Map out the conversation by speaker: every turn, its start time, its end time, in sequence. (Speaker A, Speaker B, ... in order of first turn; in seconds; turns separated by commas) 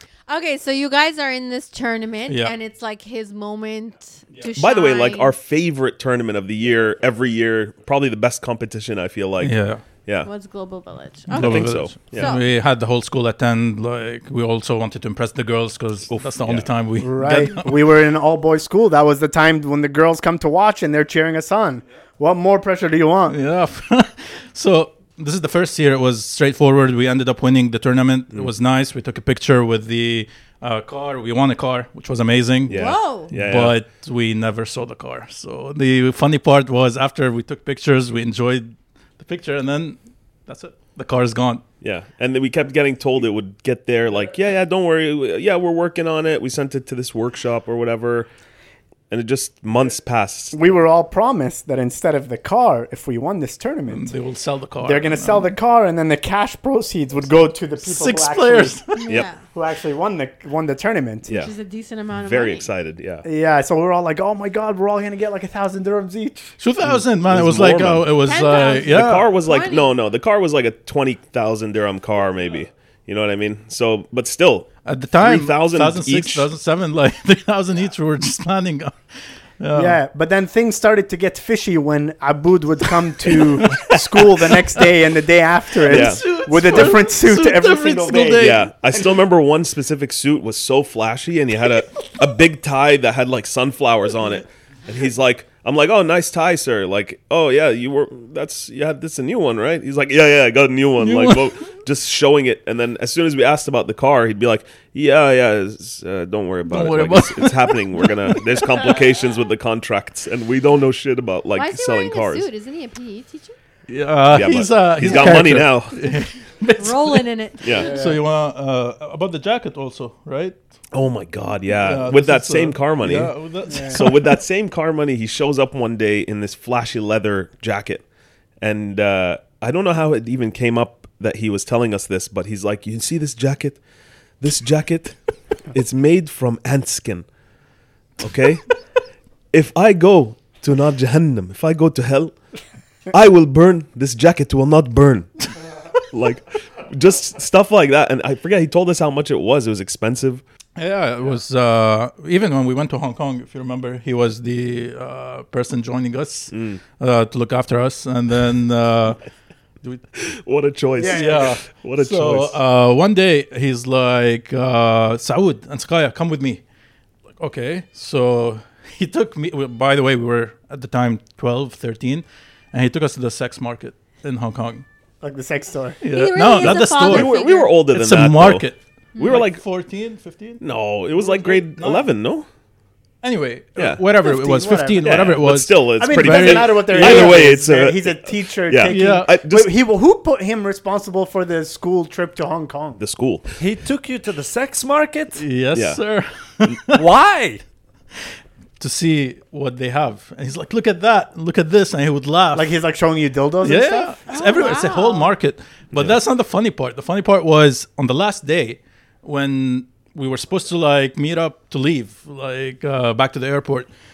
Speaker A: 0.3-5.3, Speaker B: 2.3-2.5, Speaker C: 4.5-10.3, Speaker B: 9.4-9.8, Speaker A: 10.2-12.4, Speaker B: 11.3-17.8, Speaker C: 11.3-12.3, Speaker C: 16.4-16.7, Speaker D: 17.0-23.4, Speaker B: 23.3-41.6, Speaker C: 32.7-33.7, Speaker A: 32.7-33.3, Speaker C: 41.8-48.3, Speaker C: 49.1-50.6, Speaker D: 50.5-54.1, Speaker B: 53.9-55.5, Speaker D: 54.8-58.8, Speaker B: 57.8-59.1, Speaker A: 58.9-59.4, Speaker D: 59.4-61.4, Speaker C: 61.3-61.5, Speaker A: 61.3-62.7, Speaker C: 62.1-63.3, Speaker D: 63.2-66.5, Speaker B: 66.6-69.3, Speaker C: 66.8-68.1, Speaker A: 68.2-69.9, Speaker C: 68.9-76.5, Speaker B: 74.8-79.0, Speaker B: 79.6-80.0, Speaker D: 79.7-89.2, Speaker B: 83.4-84.6, Speaker B: 85.8-88.7, Speaker C: 85.9-86.9, Speaker C: 88.4-112.5, Speaker B: 101.0-101.5, Speaker B: 106.7-109.0, Speaker A: 111.5-113.5, Speaker B: 113.9-117.2, Speaker C: 114.3-116.0, Speaker D: 115.0-115.5, Speaker A: 116.8-118.0, Speaker C: 117.6-118.0, Speaker D: 117.8-118.2, Speaker B: 117.8-120.6, Speaker C: 120.9-128.1, Speaker B: 121.8-124.4, Speaker D: 123.7-124.0, Speaker C: 128.6-133.8, Speaker C: 134.4-135.2, Speaker C: 135.7-137.3, Speaker C: 138.2-138.8, Speaker C: 139.5-142.4, Speaker C: 143.1-150.4, Speaker B: 150.8-159.2, Speaker C: 156.5-156.8, Speaker C: 160.2-162.6, Speaker D: 161.0-161.6, Speaker B: 161.0-166.6, Speaker B: 167.4-174.8, Speaker D: 175.2-176.0, Speaker B: 176.0-182.1, Speaker A: 176.1-177.8, Speaker C: 177.0-178.7, Speaker C: 179.2-179.6, Speaker C: 180.6-182.5, Speaker B: 183.2-187.5, Speaker C: 183.8-184.0, Speaker D: 184.2-185.3, Speaker C: 185.0-189.7, Speaker D: 186.0-193.0, Speaker B: 188.9-189.3, Speaker C: 193.0-193.6, Speaker E: 193.6-195.4, Speaker B: 195.4-197.1, Speaker C: 195.7-196.0, Speaker E: 196.9-197.6, Speaker B: 198.8-202.7, Speaker D: 202.5-204.2, Speaker B: 203.6-213.9, Speaker A: 204.3-205.3, Speaker C: 205.9-206.2